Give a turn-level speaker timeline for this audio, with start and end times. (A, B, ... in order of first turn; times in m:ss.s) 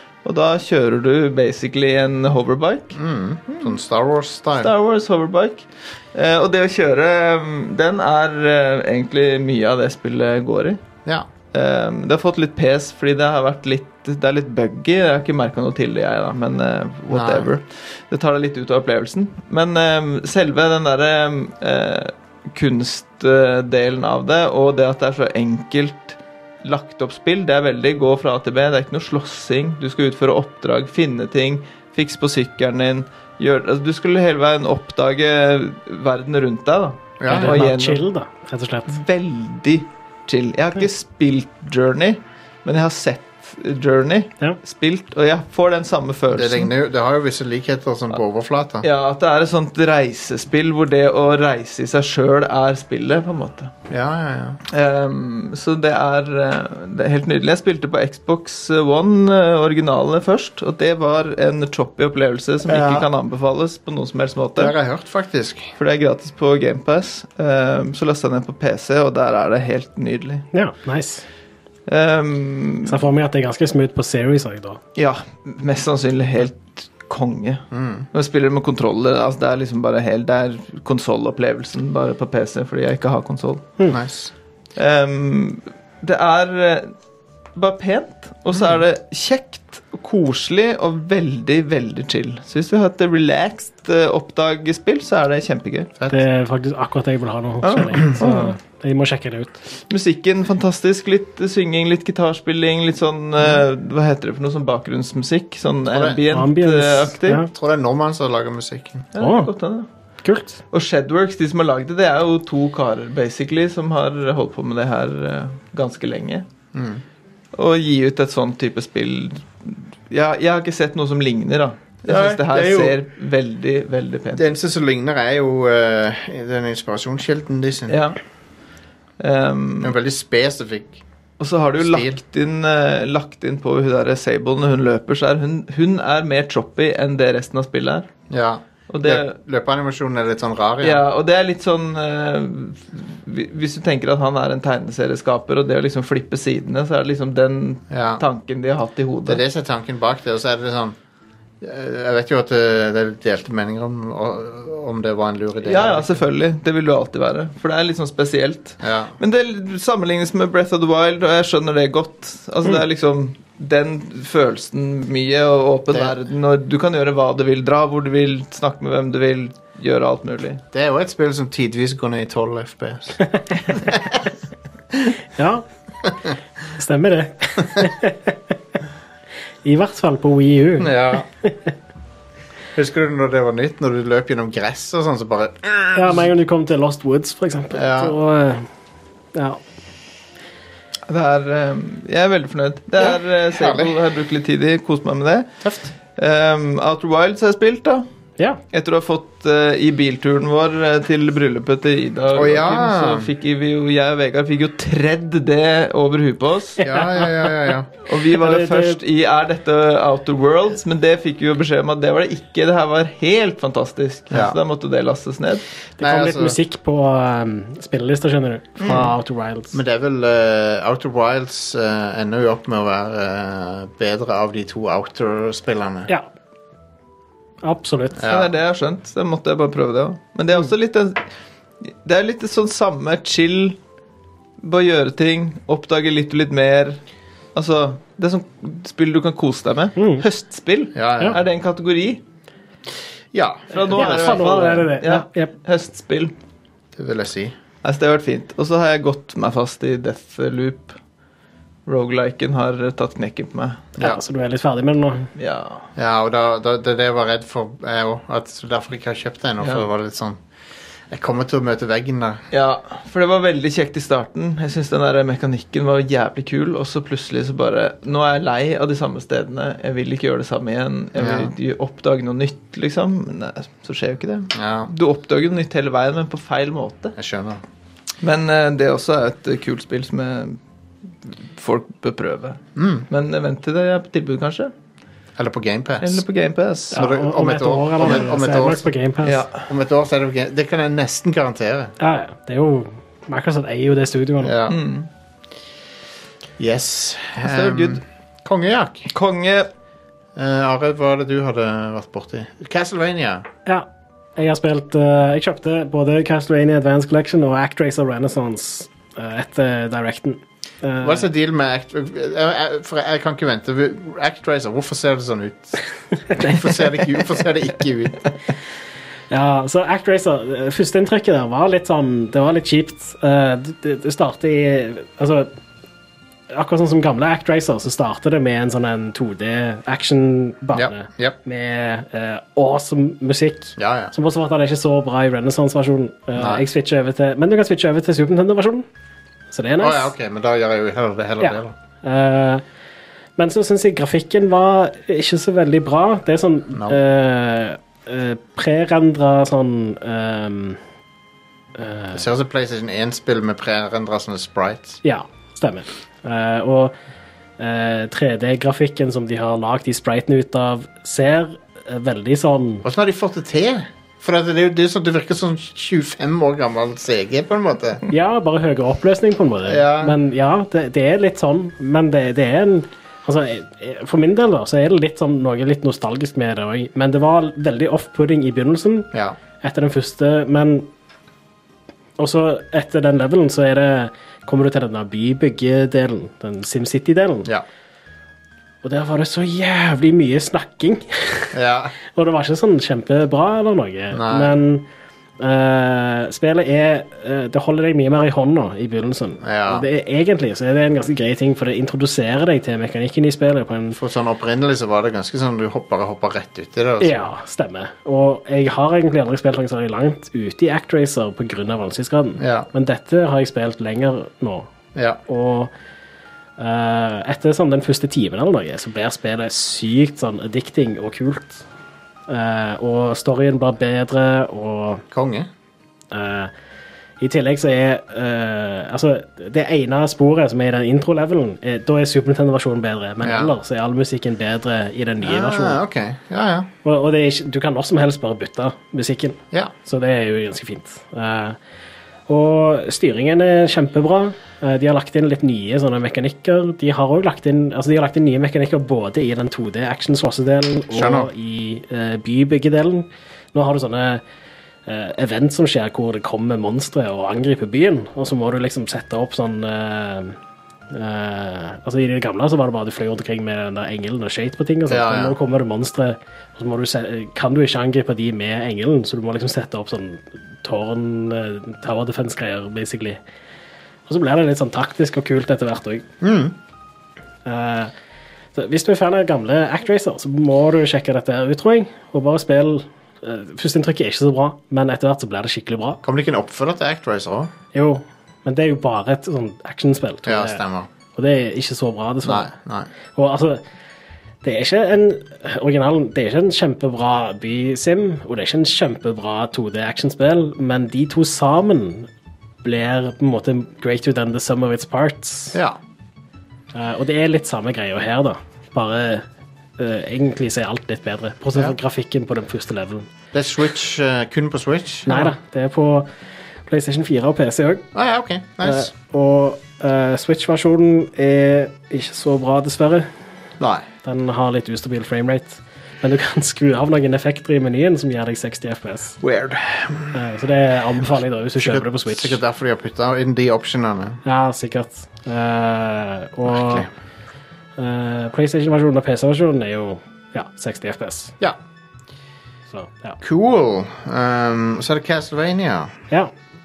0:00.2-0:03.8 A
0:02.9-0:04.7 B
0:04.5-0:10.8 A
0:11.5-0:38.0 A
0:17.1-0:17.5 B
0:37.2-0:37.7 B
0:37.3-0:39.0 C
0:38.9-0:46.7 A
0:46.3-0:48.9 B
0:48.8-0:53.7 A
0:53.9-0:54.6 B
0:54.7-1:04.7 A
1:02.7-1:03.1 B
1:04.6-1:05.7 B
1:05.8-1:10.5 A
1:10.5-1:11.2 C
1:11.9-1:13.0 A
1:12.9-1:14.8 C
1:15.0-1:23.7 A
1:17.7-1:18.1 B
1:23.9-1:24.3 B
1:24.8-1:26.9 A
1:27.6-1:35.9 A
1:36.0-1:36.2 B
1:36.1-1:39.6 C
1:37.6-1:38.6 A
1:39.9-1:47.4 A
1:45.9-1:46.2 B
1:46.3-1:47.5 C
1:47.5-1:49.1 B
1:49.1-1:49.9 A
1:49.2-1:49.5 C
1:50.2-1:50.6 C
1:50.7-1:56.4 A
1:56.7-1:57.0 B
1:57.5-2:04.5 A
2:02.0-2:03.0 B
2:04.4-2:08.0 B
2:07.9-2:08.2 A
2:09.2-2:10.0 A
2:09.8-2:11.0 B
2:11.4-2:18.1 A
2:11.8-2:12.2 B
2:18.3-2:21.0 B
2:18.9-2:19.4 A
2:20.8-2:29.4 A
2:27.9-2:28.2 B
2:29.3-2:31.0 B
2:31.6-2:36.2 B
2:35.6-2:50.6 A
2:38.8-2:39.2 B
2:45.9-2:46.2 B
2:50.7-2:53.2 B
2:53.7-2:54.3 B
2:55.4-2:55.6 C
2:56.8-2:58.4 C
2:59.6-3:01.7 C
3:00.8-3:01.3 B
3:02.8-3:06.3 B
3:06.0-3:08.7 C
3:07.7-3:08.2 B
3:09.4-3:09.6 C
3:11.1-3:15.5 A
3:13.0-3:14.0 B
3:15.6-3:15.9 B
3:16.2-3:18.1 A
3:18.7-3:26.9 A
3:22.3-3:23.3 B
3:26.8-3:27.9 B
3:26.9-3:27.3 C
3:28.0-3:35.6 A
3:28.4-3:29.0 C
3:34.3-3:34.6 B
3:36.0-3:39.8 C
3:36.0-3:36.6 B
3:38.8-3:39.1 A
3:38.9-3:39.1 B
3:39.7-3:46.1 B
3:47.6-3:48.2 C
3:48.2-3:48.5 B
3:48.3-3:51.2 A
3:51.8-3:53.8 A
3:54.6-3:57.0 A
3:57.6-4:02.2 A
4:00.0-4:00.2 C
4:01.0-4:01.4 B
4:03.3-4:04.8 B
4:03.7-4:06.3 A
4:03.9-4:05.5 C
4:07.0-4:07.6 B
4:07.8-4:11.0 A
4:11.9-4:14.0 A
4:14.0-4:15.3 C
4:15.4-4:15.9 A
4:16.0-4:20.4 B
4:19.6-4:19.9 A
4:21.1-4:22.4 B
4:22.5-4:37.2 A
4:31.2-4:31.5 B
4:34.5-4:34.9 B
4:37.2-4:37.6 B
4:38.2-4:40.6 A
4:41.2-4:44.7 A
4:42.8-4:43.1 B
4:45.4-4:46.2 B
4:46.0-4:47.0 A
4:46.9-4:49.4 C
4:46.9-4:48.9 B
4:49.2-4:49.7 A
4:49.6-4:52.0 B
4:52.0-4:54.6 C
4:54.4-4:54.8 B
4:54.7-4:55.1 A
4:56.6-4:59.1 B
4:57.4-4:58.0 A
4:59.1-4:59.7 A
5:00.4-5:03.5 B
5:03.7-5:11.2 C
5:11.0-5:18.3 B
5:16.3-5:16.8 C
5:19.3-5:25.5 C
5:26.5-5:38.9 C
5:30.7-5:31.4 B
5:33.8-5:34.1 B
5:36.4-5:36.6 B
5:39.5-5:40.1 C
5:39.8-5:41.7 B
5:41.4-5:42.6 C
5:43.4-5:50.8 C
5:46.7-5:47.0 B
5:51.8-5:52.2 C
5:52.1-5:55.0 B
5:55.0-5:56.9 C
5:57.6-6:02.8 C
6:02.8-6:08.0 B
6:08.1-6:19.1 C
6:09.6-6:10.2 B
6:19.1-6:19.4 B
6:19.6-6:20.9 C
6:22.2-6:27.5 C
6:28.8-6:31.6 C
6:31.5-6:32.0 B
6:32.1-6:34.9 C
6:34.1-6:34.6 B
6:35.4-6:44.0 C
6:39.4-6:39.9 B
6:44.0-6:47.2 B
6:47.0-6:54.7 C
6:52.4-6:52.7 B
6:55.0-6:55.2 B
6:55.3-6:55.7 C
6:56.6-7:01.6 C
7:02.3-7:05.0 C
7:05.1-7:05.5 B
7:06.1-7:06.5 C
7:07.2-7:15.8 C
7:13.2-7:13.5 B
7:15.2-7:16.7 B
7:16.8-7:21.6 C
7:22.3-7:34.2 C
7:30.9-7:31.3 B
7:34.9-7:40.4 C
7:40.9-7:53.2 C
7:44.9-7:45.4 B
7:54.1-7:56.1 C
7:56.2-7:56.6 B
7:57.4-7:57.9 C
7:58.6-8:06.0 C
8:06.0-8:07.5 B
8:07.7-8:10.6 C
8:10.2-8:10.9 B
8:11.2-8:12.5 C
8:12.2-8:12.9 B
8:13.2-8:13.6 C
8:14.4-8:22.1 C
8:22.6-8:25.6 C
8:25.5-8:25.8 B
8:26.7-8:29.2 C
8:29.8-8:33.1 C
8:33.3-8:35.3 B
8:35.1-8:36.1 C
8:36.7-8:37.9 C
8:37.9-8:38.9 B
8:38.6-8:43.1 C
8:43.6-8:43.9 B
8:44.0-8:49.2 C
8:49.2-8:50.2 B
8:50.1-8:52.4 C
8:51.6-8:54.2 B
8:54.2-8:56.9 C
8:56.5-8:56.9 B
8:57.8-9:01.4 C
9:02.7-9:03.2 C
9:03.2-9:05.9 B